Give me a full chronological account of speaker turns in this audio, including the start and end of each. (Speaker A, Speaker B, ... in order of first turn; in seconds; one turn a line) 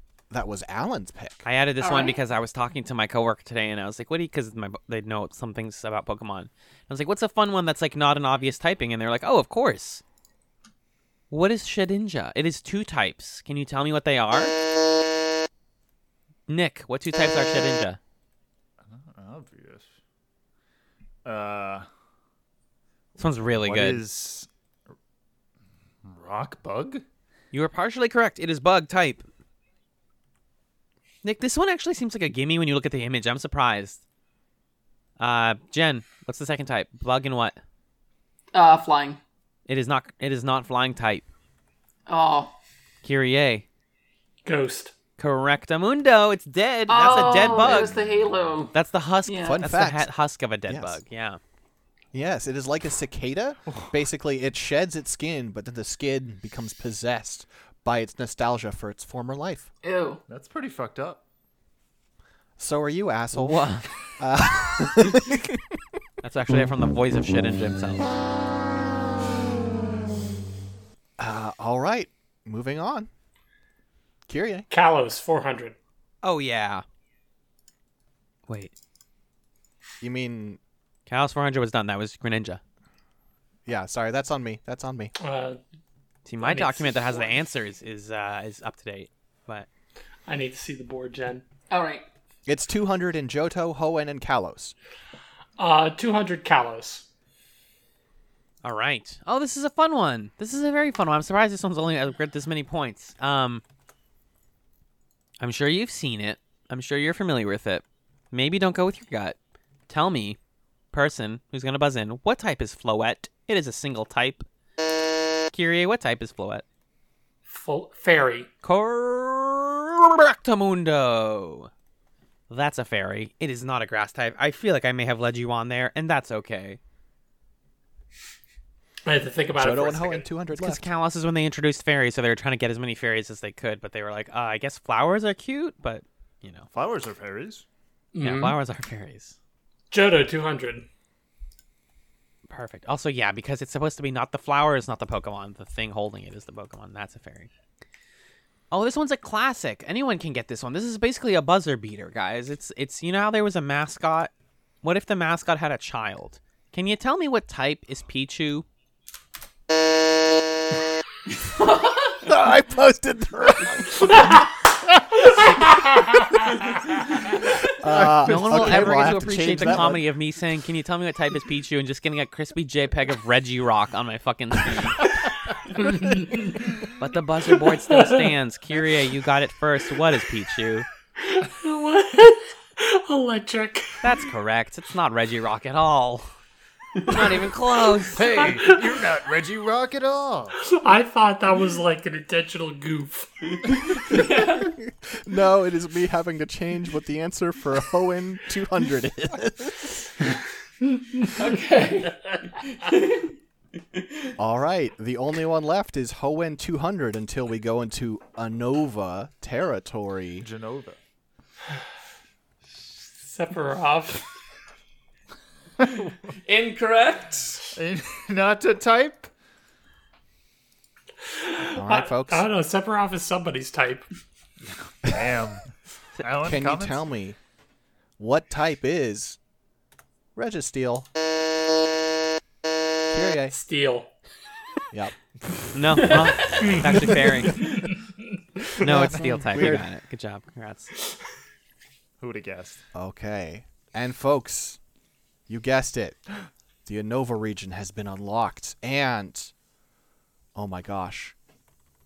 Speaker A: 0.3-1.4
Speaker B: 1.4-10.0
Speaker C: 1.8-2.2
Speaker B: 11.3-14.5
Speaker B: 16.5-18.0
Speaker D: 18.9-19.9
Speaker D: 21.2-21.9
Speaker D: 23.2-24.5
Speaker B: 23.2-24.0
Speaker D: 26.0-27.0
Speaker B: 27.5-29.2
Speaker B: 31.2-34.0
Speaker B: 35.2-37.6
Speaker C: 38.5-39.2
Speaker B: 39.7-41.2
Speaker C: 42.1-42.5
Speaker B: 43.0-43.6
Speaker E: 44.4-44.9
Speaker B: 45.2-48.0
Speaker C: 46.9-48.7
Speaker B: 48.7-51.4
Speaker C: 49.2-49.6
Speaker A: 49.4-50.1
Speaker A: 50.7-51.0
Speaker A: 52.1-59.7
Speaker C: 59.8-60.2
Speaker D: 60.3-61.2
Speaker A: 62.6-65.8
Speaker B: 63.3-63.9
Speaker B: 66.2-68.1
Speaker A: 71.2-73.1
Speaker A: 74.3-74.7
Speaker E: 74.7-75.7
Speaker B: 76.2-76.8
Speaker B: 78.5-78.7
Speaker A: 80.0-80.6
Speaker B: 81.1-82.6
Speaker A: 83.7-85.1
Speaker E: 85.2-85.6
Speaker B: 86.2-89.7
Speaker E: 86.4-87.3
Speaker E: 90.3-91.4
Speaker C: 91.7-92.0
Speaker A: 92.5-94.7
Speaker E: 95.6-97.1
Speaker B: 98.6-103.6
Speaker B: 105.4-109.4
Speaker B: 109.9-110.4
Speaker B: 110.9-114.5
Speaker B: 115.5-116.6
Speaker E: 117.5-118.5
Speaker B: 118.6-121.7
Speaker B: 122.5-126.8
Speaker E: 129.1-130.2
Speaker A: 129.5-130.9
Speaker B: 130.5-136.7
Speaker D: 136.7-137.6
Speaker E: 138.1-138.6
Speaker B: 138.2-139.3
Speaker E: 139.9-140.9
Speaker B: 142.5-147.5
Speaker B: 148.7-154.3
Speaker B: 154.8-158.7
Speaker C: 161.6-162.2
Speaker A: 162.2-164.3
Speaker A: 167.8-170.0
Speaker B: 167.9-175.1
Speaker E: 175.8-176.7
Speaker B: 177.0-180.9
Speaker E: 178.0-178.2
Speaker E: 181.2-184.0
Speaker B: 184.0-186.3
Speaker B: 187.0-188.3
Speaker D: 188.1-190.6
Speaker E: 188.2-188.9
Speaker E: 190.6-194.1
Speaker C: 194.1-194.6
Speaker A: 194.1-200.1
Speaker C: 201.3-203.3
Speaker A: 204.4-210.5
Speaker D: 210.4-211.0
Speaker E: 213.2-214.2
Speaker C: 216.4-217.7
Speaker D: 217.7-219.3
Speaker E: 221.3-224.0
Speaker A: 221.8-222.5
Speaker D: 225.0-225.7
Speaker D: 226.2-227.0
Speaker A: 226.4-227.4
Speaker A: 228.2-229.4
Speaker A: 230.3-231.1
Speaker A: 233.1-233.5
Speaker E: 233.5-234.1
Speaker B: 235.7-237.8
Speaker E: 236.2-238.0
Speaker A: 238.8-239.8
Speaker B: 238.8-240.9
Speaker D: 242.2-242.8
Speaker A: 242.9-244.8
Speaker A: 245.5-246.2
Speaker A: 246.8-249.5
Speaker A: 250.5-251.3